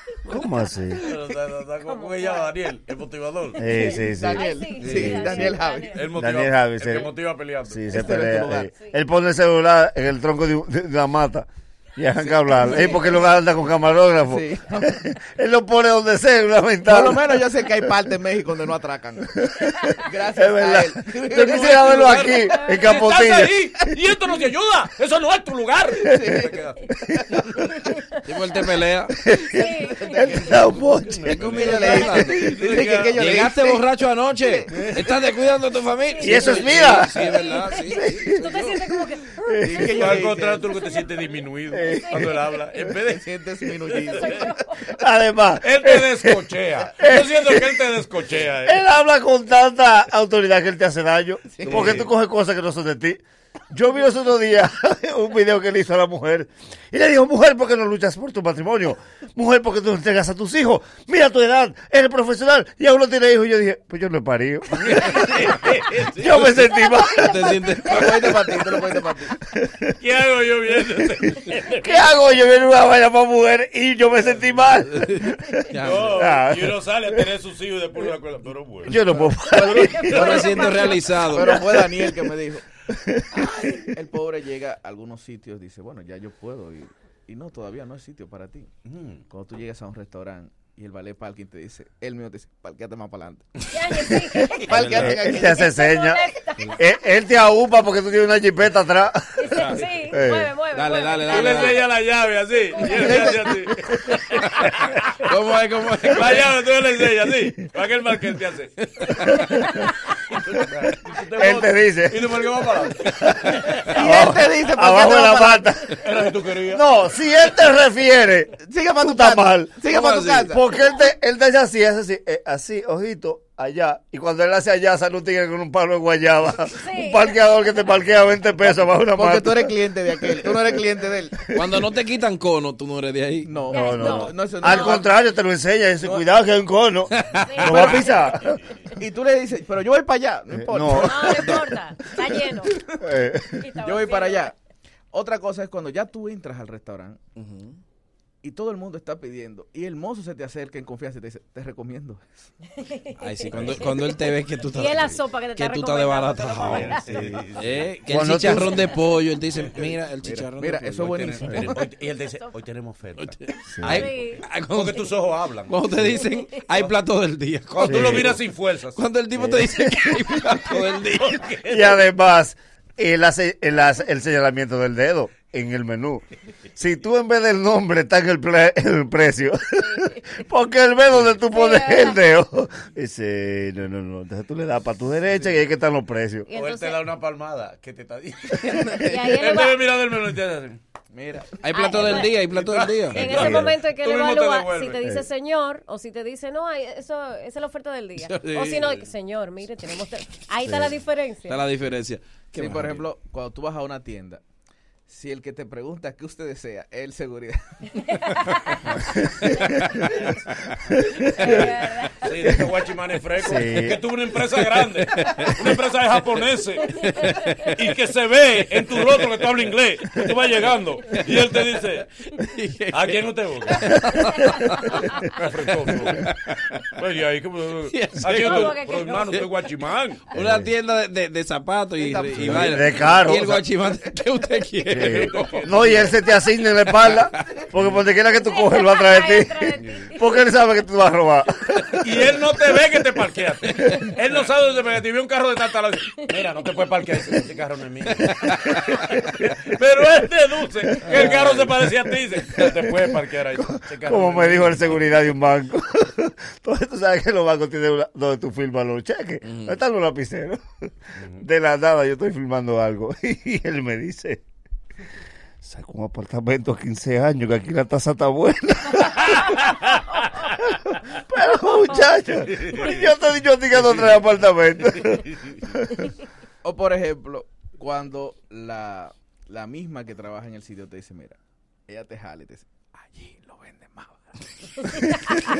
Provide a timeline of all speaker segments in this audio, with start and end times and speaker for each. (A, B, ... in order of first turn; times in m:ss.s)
0:00.3-0:01.0 A
0:01.0-0:01.5 B
0:01.1-0:03.6 C
0:01.9-0:02.5 D
0:03.6-0:05.6 A
0:03.7-0:06.0 B
0:03.8-0:06.0 D
0:04.8-0:05.2 C
0:05.1-0:05.8 E
0:05.9-0:07.8 C
0:06.1-0:07.1 A
0:07.6-0:17.4 A
0:07.9-0:08.7 B
0:12.2-0:13.2 B
0:14.3-0:15.0 B
0:16.8-0:22.3 B
0:19.4-0:23.8 A
0:21.4-0:27.8 C
0:22.5-0:22.9 D
0:26.1-0:26.5 B
0:27.1-0:27.4 B
0:28.3-0:29.1 E
0:29.2-0:32.3 A
0:29.6-0:30.4 D
0:29.6-0:30.8 B
0:30.6-0:33.4 C
0:31.3-0:32.4 E
0:31.4-0:35.0 B
0:33.2-0:39.0 E
0:34.7-0:35.2 C
0:35.9-0:36.6 D
0:36.2-0:38.7 A
0:37.4-0:39.9 D
0:39.4-0:40.0 A
0:39.6-0:40.7 B
0:39.8-0:43.3 C
0:41.7-0:42.4 A
0:41.9-0:42.3 D
0:43.1-0:44.6 B
0:43.9-0:44.4 C
0:44.2-0:44.8 D
0:45.0-0:47.8 A
0:45.6-0:48.8 C
0:48.6-1:07.8 A
0:51.5-0:52.0 B
0:51.6-0:52.1 C
1:04.7-1:06.7 C
1:07.2-1:08.4 E
1:07.9-1:09.4 B
1:09.4-1:09.9 A
1:10.0-1:11.9 C
1:11.5-1:17.3 A
1:14.2-1:14.5 C
1:15.1-1:15.9 E
1:15.8-1:19.3 C
1:18.8-1:20.8 A
1:19.2-1:22.6 B
1:19.7-1:21.6 E
1:20.0-1:21.0 D
1:21.4-1:22.0 A
1:22.9-1:23.9 A
1:23.9-1:28.7 B
1:28.9-1:29.2 C
1:29.3-1:34.0 B
1:33.7-1:34.6 D
1:34.5-1:35.4 E
1:34.7-1:35.2 C
1:34.7-1:35.7 B
1:34.7-1:40.5 A
1:35.5-1:36.7 D
1:39.5-1:41.8 D
1:39.5-1:41.8 E
1:41.3-1:45.0 C
1:42.7-1:43.4 D
1:42.8-1:43.5 B
1:43.1-1:43.3 E
1:45.2-1:46.4 E
1:46.0-1:54.0 C
1:49.2-1:49.7 A
1:51.3-1:52.2 A
1:53.4-1:56.0 A
1:53.8-1:55.8 B
1:56.0-1:56.8 C
1:56.7-2:09.8 A
1:58.6-2:00.6 B
1:59.9-2:00.4 E
2:06.8-2:07.4 D
2:08.6-2:11.4 B
2:10.3-2:10.7 A
2:11.6-2:14.3 E
2:13.5-2:15.1 B
2:13.7-2:14.9 D
2:13.7-2:18.6 A
2:16.0-2:16.3 B
2:17.2-2:18.2 E
2:17.4-2:18.3 D
2:17.7-2:18.0 B
2:19.0-2:21.7 B
2:20.5-2:21.6 A
2:21.0-2:22.3 E
2:21.1-2:22.7 D
2:22.3-2:23.1 B
2:23.0-2:23.7 A
2:23.6-2:24.5 D
2:23.8-2:24.6 B
2:25.1-2:27.2 B
2:27.4-2:27.7 E
2:28.4-2:32.4 B
2:32.8-2:36.7 D
2:33.2-2:37.0 E
2:36.6-2:37.9 C
2:36.6-2:37.4 A
2:37.6-2:41.0 E
2:38.0-2:38.9 A
2:39.8-2:41.9 B
2:40.9-2:43.4 C
2:41.4-2:41.7 A
2:43.7-2:44.1 A
2:43.8-2:45.0 E
2:44.0-2:44.4 D
2:44.7-2:46.0 C
2:45.7-2:48.3 E
2:46.0-2:46.2 A
2:46.1-2:46.6 D
2:47.7-2:49.0 C
2:47.8-2:48.4 A
2:49.0-2:51.3 E
2:49.3-2:50.2 A
2:51.1-2:52.0 C
2:51.7-2:56.2 A
2:56.8-3:06.5 A
3:01.1-3:01.4 C
3:01.6-3:02.1 D
3:06.5-3:07.0 D
3:06.5-3:10.8 C
3:08.8-3:09.8 D
3:09.0-3:09.3 E
3:11.1-3:11.5 B
3:11.6-3:13.8 E
3:11.7-3:12.3 D
3:11.9-3:15.0 C
3:13.1-3:13.7 A
3:13.2-3:21.7 D
3:18.2-3:19.0 E
3:18.7-3:19.1 C
3:19.6-3:19.9 E
3:20.6-3:21.0 A
3:21.1-3:23.0 E
3:22.6-3:24.4 B
3:25.1-3:28.4 B
3:28.1-3:28.8 D
3:28.9-3:30.3 A
3:30.9-3:31.8 A
3:31.4-3:32.3 D
3:32.2-3:37.1 C
3:33.4-3:34.0 A
3:35.2-3:35.5 E
3:37.0-3:37.7 D
3:37.1-3:37.7 E
3:37.7-3:42.1 C
3:42.5-3:43.1 E
3:42.9-3:44.3 C
3:43.9-3:44.3 A
3:43.9-3:44.9 E
3:44.4-3:44.9 D
3:45.2-3:50.2 C
3:47.9-3:49.5 E
3:48.3-3:49.3 D
3:50.3-3:55.8 E
3:50.3-3:50.7 A
3:52.0-3:53.9 B
3:52.3-3:53.6 A
3:54.9-4:02.3 A
3:54.9-3:56.2 C
3:58.4-4:00.1 D
4:02.0-4:15.1 C
4:10.9-4:11.7 A
4:12.6-4:20.6 A
4:19.5-4:19.8 E
4:21.2-4:21.4 C
4:21.4-4:24.4 A
4:25.6-4:29.6 A
4:30.4-4:36.1 A
4:32.5-4:33.1 C
4:33.7-4:34.2 C
4:36.6-4:41.4 B
4:41.9-4:45.4 B